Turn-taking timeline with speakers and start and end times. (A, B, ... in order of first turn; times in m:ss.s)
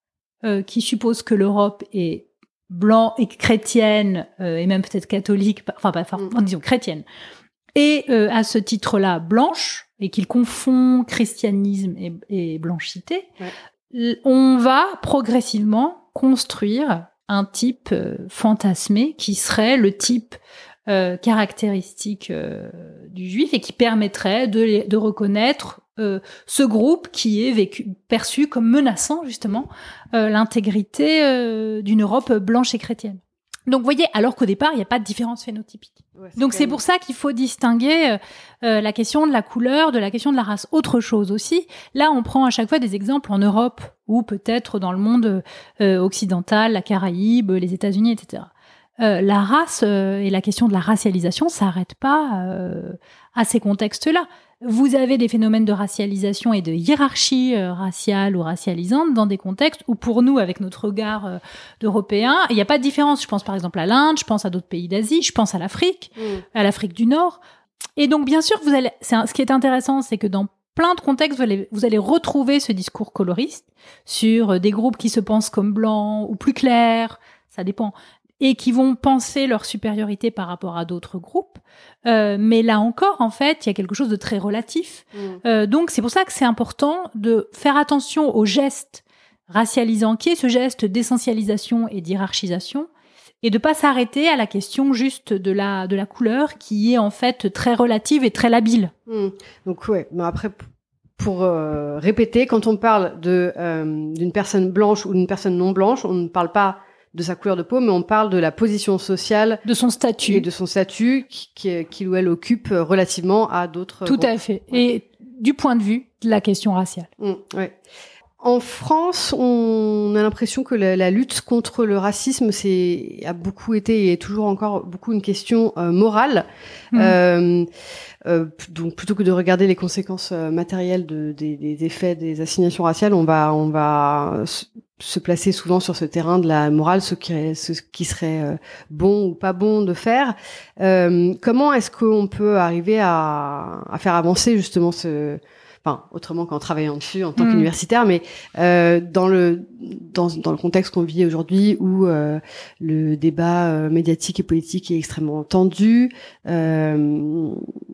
0:00.4-0:07.0 A
0:07.8-0:13.3 A
0:13.9-1:07.4 A
0:36.2-0:36.8 B
1:08.0-1:32.9 A
1:25.1-1:25.4 B
1:33.4-1:38.9 A
1:39.1-1:40.6 B
1:41.2-1:49.6 B
1:49.6-1:50.5 A
1:50.3-1:54.8 B
1:54.0-1:57.1 A
1:57.2-1:57.8 B
1:58.4-2:07.7 B
2:08.2-2:37.7 B
2:27.4-2:27.7 A